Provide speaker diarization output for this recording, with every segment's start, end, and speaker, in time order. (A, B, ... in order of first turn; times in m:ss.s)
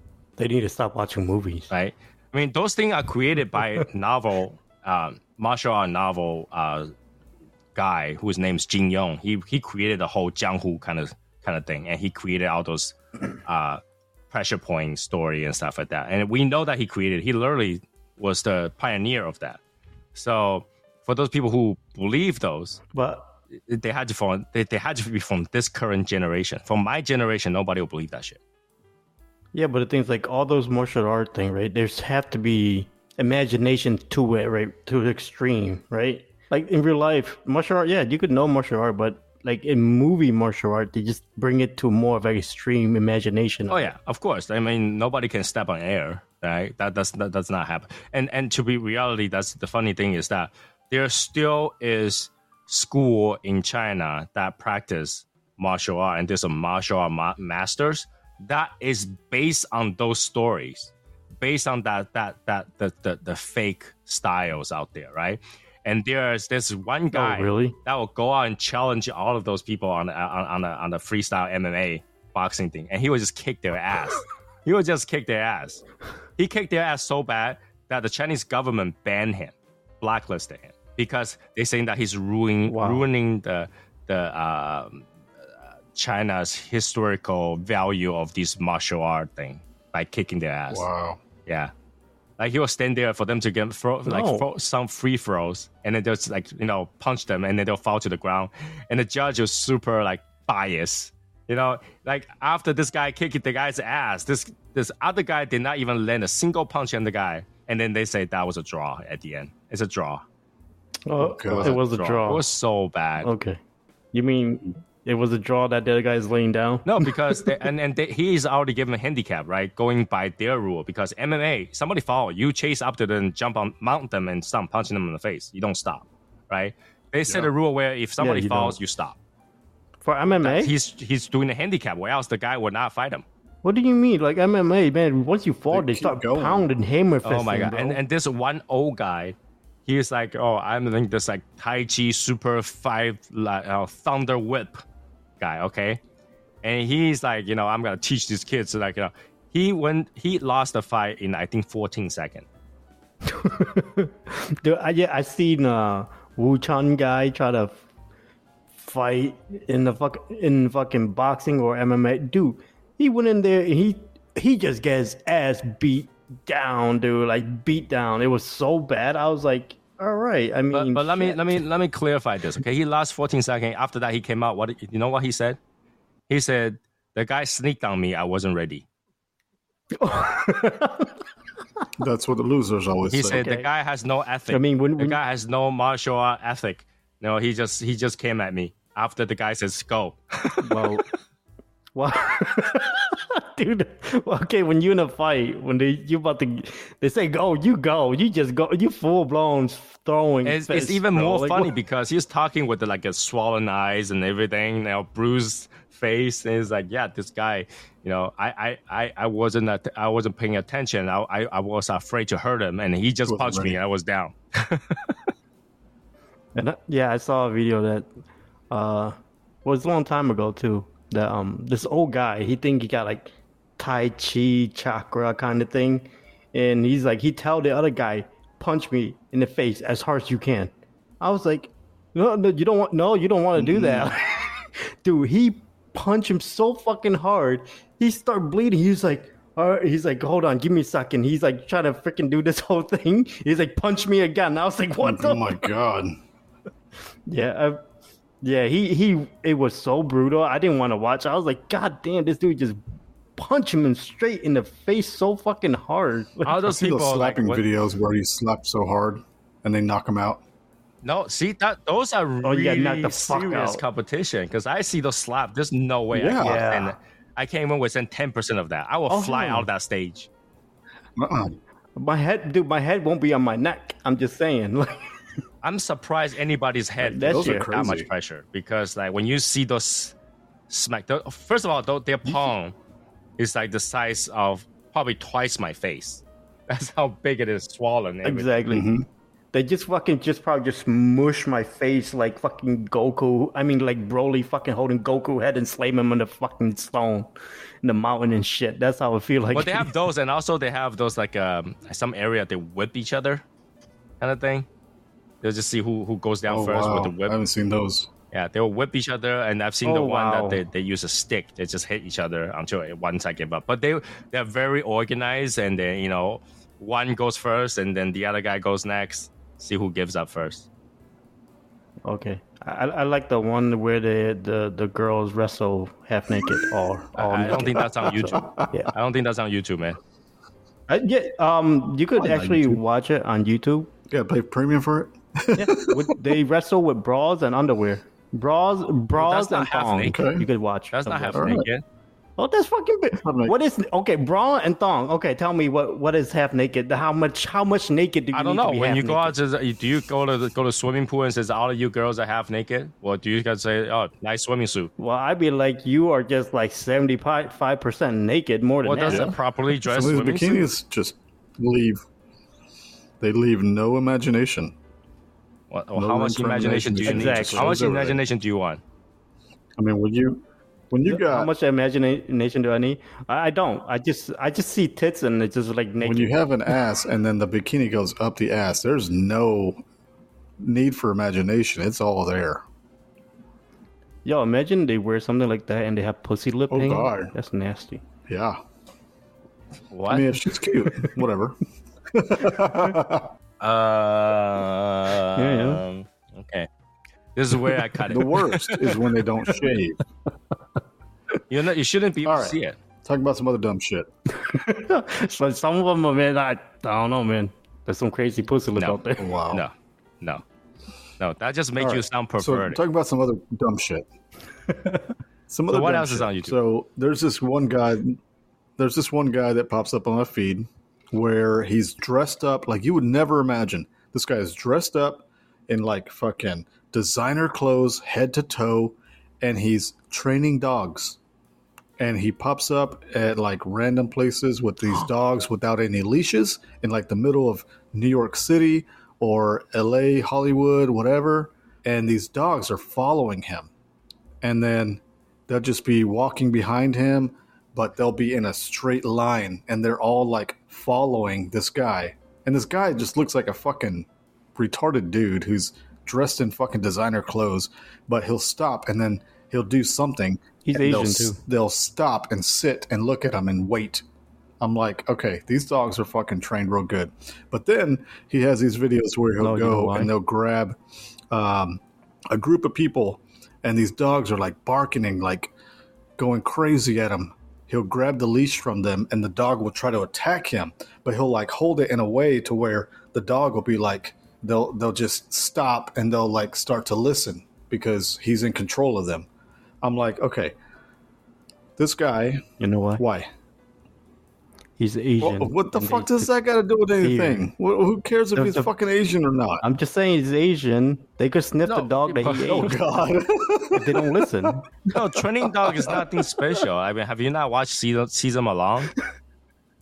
0:00.4-0:01.7 A
0:01.7-0:06.9 B
0:07.7-0:13.8 B
0:14.3-0:19.6 B
0:20.1-0:22.8 B
0:22.9-0:23.3 A
0:23.7-0:28.4 B
0:29.5-0:43.9 A
0:43.7-1:15.8 B
1:07.1-1:07.8 A
1:16.4-1:25.1 B
1:22.7-1:23.0 A
1:25.9-1:30.8 B
1:30.7-1:31.2 C
1:31.4-1:31.7 B
1:32.4-1:50.2 B
1:34.0-1:34.4 A
1:51.0-1:52.4 A
1:51.2-1:51.8 C
1:51.6-1:53.3 B
1:53.2-1:53.6 A
1:54.1-1:57.6 A
1:56.8-2:09.2 B
2:08.2-2:08.8 A
2:10.0-2:10.7 A
2:10.4-2:13.2 B
2:13.6-2:18.0 A
2:15.7-2:16.6 C
2:17.2-2:24.8 B
2:25.4-2:26.0 B
2:26.6-2:32.4 B
2:33.2-2:37.8 A
2:38.7-2:51.6 A
2:50.7-2:55.6 B
2:56.3-2:58.8 B
3:00.0-3:01.1 A
3:02.0-3:03.5 C
3:03.1-3:10.9 B
3:03.3-3:03.7 A
3:04.5-3:05.2 A
3:10.6-3:11.0 A
3:11.9-3:21.7 A
3:20.4-3:35.2 B
3:33.3-3:33.8 C
3:36.6-3:38.1 A
3:38.7-4:05.6 A
3:53.6-3:54.5 C
4:05.0-4:06.2 C
4:07.3-4:07.8 A
4:08.4-4:12.8 A
4:13.4-4:16.6 A
4:16.4-4:17.6 B
4:16.7-4:20.4 C
4:21.0-4:30.3 B
4:22.4-4:23.8 A
4:26.1-4:26.6 C
4:26.4-4:27.0 A
4:29.1-4:29.7 A
4:31.2-4:31.6 C
4:32.0-4:35.0 A
4:35.6-4:40.1 B
4:37.0-4:37.7 A
4:37.3-4:38.1 C
4:40.7-4:42.7 B
4:43.4-4:48.5 B
4:48.2-4:48.9 A
4:48.7-4:49.0 C
4:49.5-4:57.3 A
4:57.8-4:59.9 A
4:59.5-5:03.4 B
5:04.2-5:04.7 B
5:05.4-5:07.3 B
5:06.5-5:08.1 C
5:08.3-5:20.7 B
5:09.8-5:10.6 A
5:22.0-5:28.9 A
5:26.4-5:26.7 C
5:27.2-5:30.0 B
5:27.5-5:28.7 C
5:30.9-5:33.9 A
5:32.2-5:32.8 C
5:34.1-5:36.3 C
5:35.6-5:41.6 A
5:39.1-5:40.2 B
5:40.0-5:40.5 C
5:40.9-5:41.8 B
5:41.3-5:41.6 C
5:42.4-5:49.3 A
5:43.1-5:43.5 C
5:48.3-5:54.9 B
5:55.0-5:59.4 A
5:58.8-6:00.6 B
5:59.8-6:02.0 C
6:03.2-6:04.8 C
6:05.7-6:08.8 B
6:05.9-6:08.2 C
6:07.0-6:07.8 A
6:09.8-6:11.5 C
6:11.0-6:16.4 A
6:16.0-6:19.8 C
6:20.6-6:22.6 C
6:24.2-6:28.0 A
6:26.7-6:27.3 C
6:28.3-6:28.6 C
6:29.9-6:30.3 B
6:30.1-6:31.6 C
6:32.1-6:33.3 C
6:33.6-6:36.7 B
6:35.4-6:35.8 A
6:37.4-6:39.0 B
6:38.1-6:40.0 C
6:41.5-6:42.8 B
6:42.2-6:44.1 C
6:44.4-6:49.3 A
6:49.2-6:49.6 C
6:49.5-6:50.4 B
6:51.2-6:52.8 B
6:51.8-6:54.0 C
6:55.5-6:58.2 C
6:55.7-6:56.6 B
6:58.8-7:11.2 C
7:12.0-7:23.7 C
7:24.4-7:44.0 C
7:40.6-7:41.4 A
7:44.6-7:50.8 C
7:49.4-7:50.1 A
7:51.3-7:55.5 C
7:56.2-8:09.3 C
8:09.8-8:10.5 C
8:11.8-8:12.4 C
8:12.6-8:13.0 A
8:13.0-8:13.3 C
8:14.8-8:16.3 A
8:15.2-8:19.6 C
8:17.0-8:17.5 A
8:18.4-8:18.7 A
8:19.6-8:22.8 A
8:21.6-8:22.7 B
8:22.3-8:24.6 C
8:23.7-8:24.7 A
8:24.9-8:28.9 B
8:25.1-8:26.2 C